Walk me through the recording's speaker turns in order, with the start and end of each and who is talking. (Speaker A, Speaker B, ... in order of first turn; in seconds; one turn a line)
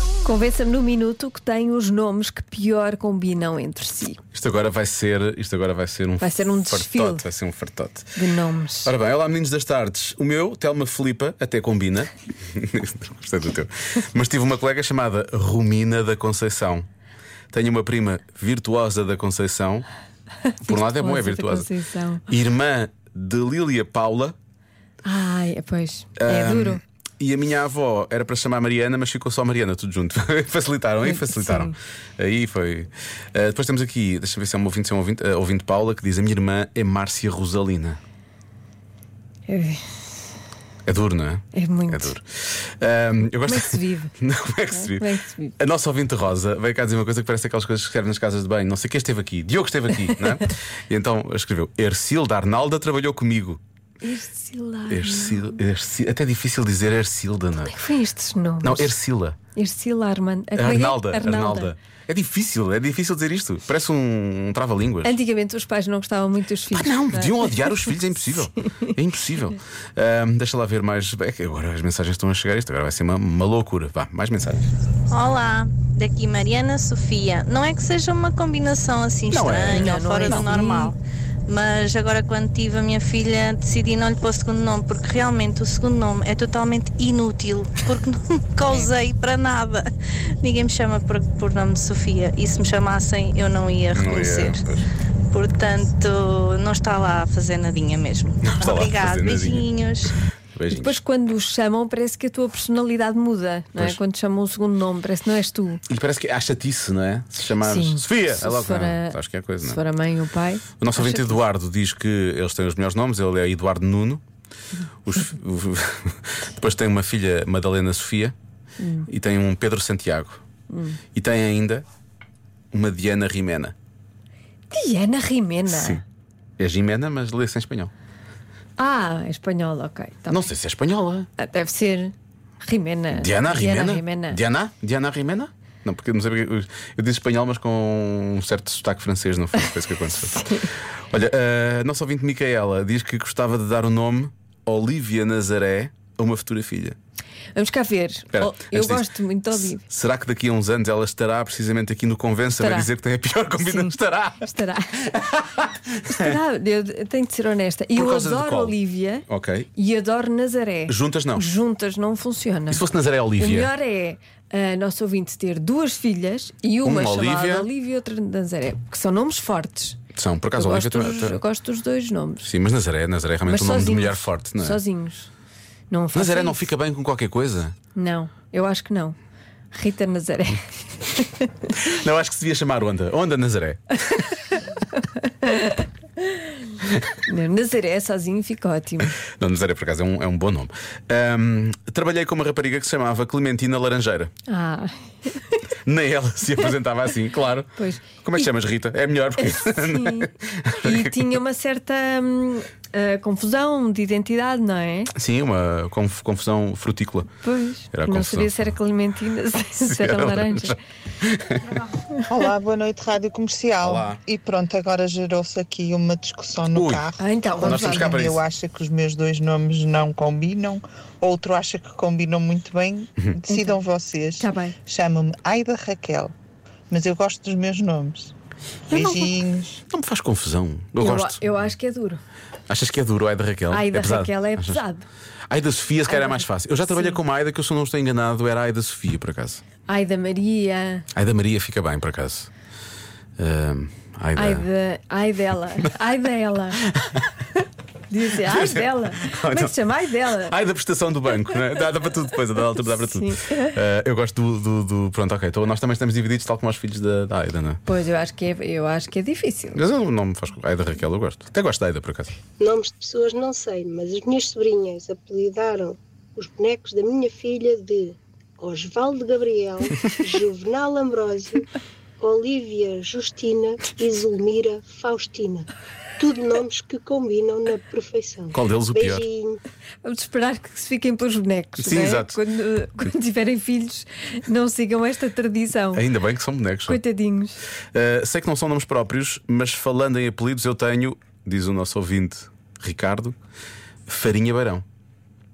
Speaker A: 0.2-4.2
Speaker B: 4.3-8.1
Speaker A: 6.2-7.2
Speaker A: 8.2-8.9
Speaker B: 8.8-16.9
Speaker B: 17.5-19.9
Speaker A: 20.5-22.2
Speaker B: 20.6-21.7
Speaker B: 22.3-24.3
Speaker A: 25.0-26.8
Speaker B: 26.2-38.0
Speaker A: 31.0-31.7
Speaker A: 39.5-39.9
Speaker B: 40.9-53.6
Speaker A: 41.5-42.1
Speaker A: 43.5-44.1
Speaker A: 44.7-45.5
Speaker A: 54.0-55.6
Speaker B: 54.9-57.7
Speaker A: 57.7-58.9
Speaker B: 58.6-59.4
Speaker A: 59.5-61.7
Speaker B: 60.5-65.2
Speaker A: 65.0-68.0
Speaker B: 66.7-74.7
Speaker A: 68.6-68.9
Speaker C: 75.1-94.6
Speaker B: 79.3-80.5
Speaker A: 79.7-80.9
Speaker B: 93.9-94.8
Speaker C: 95.3-100.1
Speaker B: 98.4-99.7
Speaker B: 100.5-101.0
Speaker A: 100.7-105.8
Speaker B: 105.9-109.8
Speaker A: 107.6-111.4
Speaker B: 110.8-114.2
Speaker B: 115.0-118.3
Speaker A: 118.8-119.1
Speaker B: 119.1-120.4
Speaker A: 120.7-121.0
Speaker B: 121.1-121.8
Speaker B: 122.7-123.7
Speaker A: 124.7-126.0
Speaker B: 125.7-126.0
Speaker B: 126.6-127.9
Speaker A: 128.8-130.5
Speaker B: 130.3-131.3
Speaker A: 131.4-134.4
Speaker B: 133.1-140.4
Speaker A: 140.2-140.7
Speaker B: 141.0-146.9
Speaker A: 147.5-149.8
Speaker B: 148.3-156.3
Speaker A: 152.6-152.9
Speaker A: 153.6-154.9
Speaker A: 156.1-162.8
Speaker B: 157.9-159.7
Speaker B: 160.9-161.5
Speaker B: 162.7-163.7
Speaker A: 163.4-170.0
Speaker B: 166.8-167.7
Speaker B: 170.1-171.4
Speaker A: 170.6-172.5
Speaker B: 172.4-174.8
Speaker A: 173.4-175.3
Speaker A: 175.9-176.7
Speaker B: 176.1-177.7
Speaker A: 177.9-179.2
Speaker A: 179.7-181.5
Speaker B: 181.7-184.1
Speaker A: 184.9-186.4
Speaker A: 187.2-189.2
Speaker B: 189.2-194.3
Speaker A: 194.5-195.6
Speaker B: 195.8-201.3
Speaker A: 197.8-198.4
Speaker A: 199.4-205.1
Speaker B: 205.1-207.3
Speaker A: 207.4-210.8
Speaker B: 207.9-208.5
Speaker B: 209.8-211.8
Speaker D: 212.3-226.3
Speaker B: 213.8-214.2
Speaker B: 216.7-217.1
Speaker A: 217.2-218.2
Speaker B: 217.6-218.4
Speaker A: 223.5-223.8
Speaker A: 224.4-224.7
Speaker D: 226.9-228.3
Speaker B: 228.9-229.3
Speaker D: 228.9-229.8
Speaker B: 229.9-231.4
Speaker A: 231.0-232.2
Speaker B: 232.7-234.8
Speaker A: 233.7-235.0
Speaker B: 235.5-239.6
Speaker A: 236.1-237.2
Speaker A: 239.9-241.1
Speaker B: 241.1-242.5
Speaker B: 243.4-244.7
Speaker A: 244.3-246.8
Speaker A: 248.1-250.5
Speaker B: 248.4-249.7
Speaker B: 250.4-257.8
Speaker A: 252.9-253.8
Speaker A: 257.9-259.8
Speaker B: 259.7-262.3
Speaker E: 262.6-271.6
Speaker E: 272.2-279.6
Speaker B: 278.5-279.2
Speaker A: 280.0-286.0
Speaker B: 281.8-282.4
Speaker B: 285.9-287.0
Speaker A: 286.9-287.6
Speaker B: 287.9-293.3
Speaker B: 294.1-294.8